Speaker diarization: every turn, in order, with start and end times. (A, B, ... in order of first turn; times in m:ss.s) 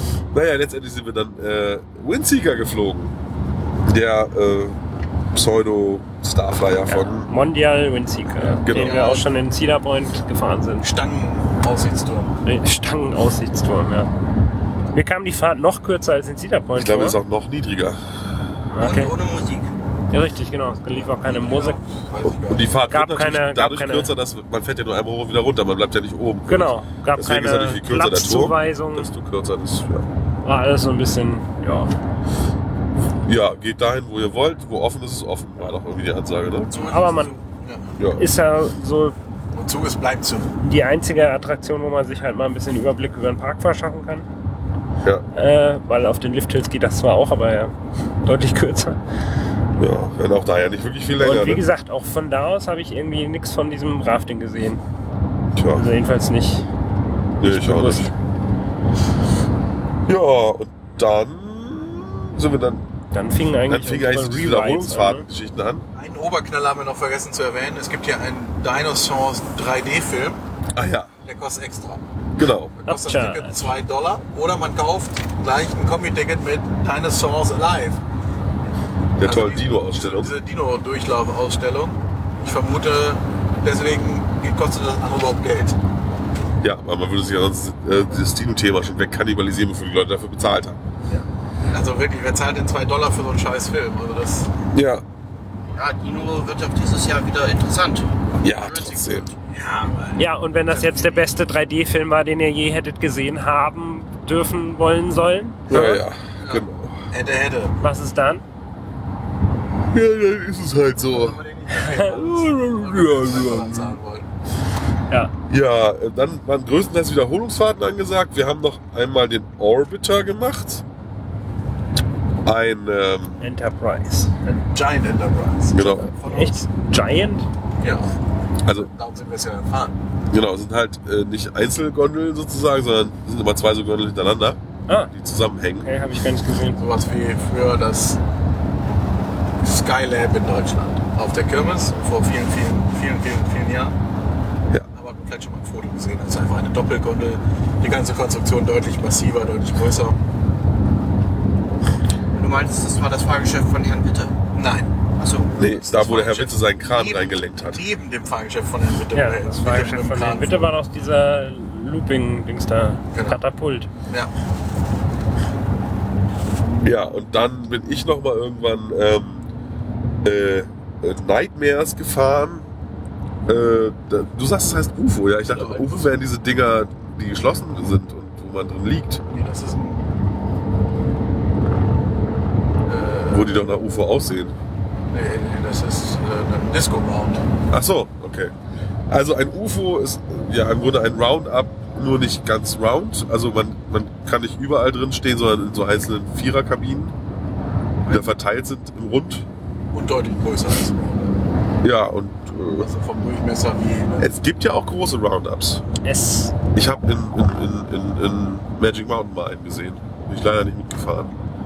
0:00.3-0:03.2 A
0:03.8-0:04.8 A
0:05.3-0:07.3 A
0:06.9-0:10.9 B
0:08.5-0:09.1 A
0:08.7-0:09.2 C
0:10.8-0:12.4 C
0:12.4-0:14.1 B
0:14.9-0:17.2 B
0:16.8-0:18.0 A
0:18.7-0:19.1 B
0:18.8-0:19.7 D
0:20.1-0:21.8 B
0:21.1-0:22.8 C
0:22.2-0:30.1 A
0:22.9-0:24.1 B
0:26.5-0:29.1 B
0:30.4-0:31.9 B
0:33.2-0:36.7 A
0:36.7-0:37.9 C
0:36.9-0:37.4 B
0:38.0-0:38.2 A
0:38.2-0:39.2 B
0:39.5-0:40.5 C
0:40.6-0:44.3 B
0:45.3-0:47.7 B
0:48.2-0:49.0 B
0:49.8-0:51.6 A
0:51.2-0:54.8 B
0:55.5-0:55.8 A
0:55.7-0:56.7 B
0:57.4-0:58.1 A
0:57.4-0:58.1 B
1:00.1-1:02.8 A
1:03.1-1:05.2 B
1:03.7-1:05.8 A
1:05.9-1:10.4 C
1:10.7-1:11.1 A
1:11.2-1:12.0 C
1:12.4-1:12.7 A
1:12.8-1:18.0 C
1:12.8-1:13.7 B
1:19.2-1:20.3 A
1:19.2-1:25.8 C
1:26.6-1:30.8 A
1:31.1-1:34.5 C
1:34.7-1:35.0 A
1:35.7-1:39.3 D
1:38.4-1:39.3 A
1:39.4-1:41.3 C
1:40.2-1:46.0 B
1:45.7-1:47.0 A
1:46.4-1:47.8 C
1:47.8-1:48.4 B
1:49.9-1:51.4 A
1:51.0-1:54.3 C
1:51.7-1:52.1 B
1:52.1-1:54.0 A
1:55.5-2:00.8 A
2:02.4-2:03.4 A
2:03.4-2:04.6 B
2:04.7-2:06.6 C
2:05.7-2:06.1 A
2:06.3-2:07.5 B
2:07.8-2:08.1 C
2:08.6-2:08.9 A
2:08.8-2:10.0 C
2:10.3-2:14.6 A
2:14.9-2:15.1 B
2:15.1-2:16.1 A
2:15.8-2:16.8 B
2:16.8-2:18.2 C
2:19.6-2:24.0 C
2:24.9-2:30.2 C
2:32.3-2:34.4 D
2:34.5-2:34.9 C
2:35.2-2:36.2 D
2:35.6-2:37.8 A
2:35.9-2:40.7 C
2:39.1-2:43.9 B
2:43.1-2:43.4 C
2:46.8-2:49.4 A
2:50.2-2:52.7 A
2:53.5-2:59.2 A
2:55.5-2:56.1 C
2:59.3-3:00.0 C
3:02.9-3:03.6 C
3:03.3-3:04.5 A
3:05.1-3:07.4 C
3:07.7-3:08.5 A
3:09.1-3:17.2 A
3:18.1-3:19.5 A
3:19.9-3:21.4 C
3:21.8-3:22.9 A
3:22.8-3:24.3 C
3:24.2-3:25.8 A
3:26.0-3:26.5 B
3:26.7-3:31.3 A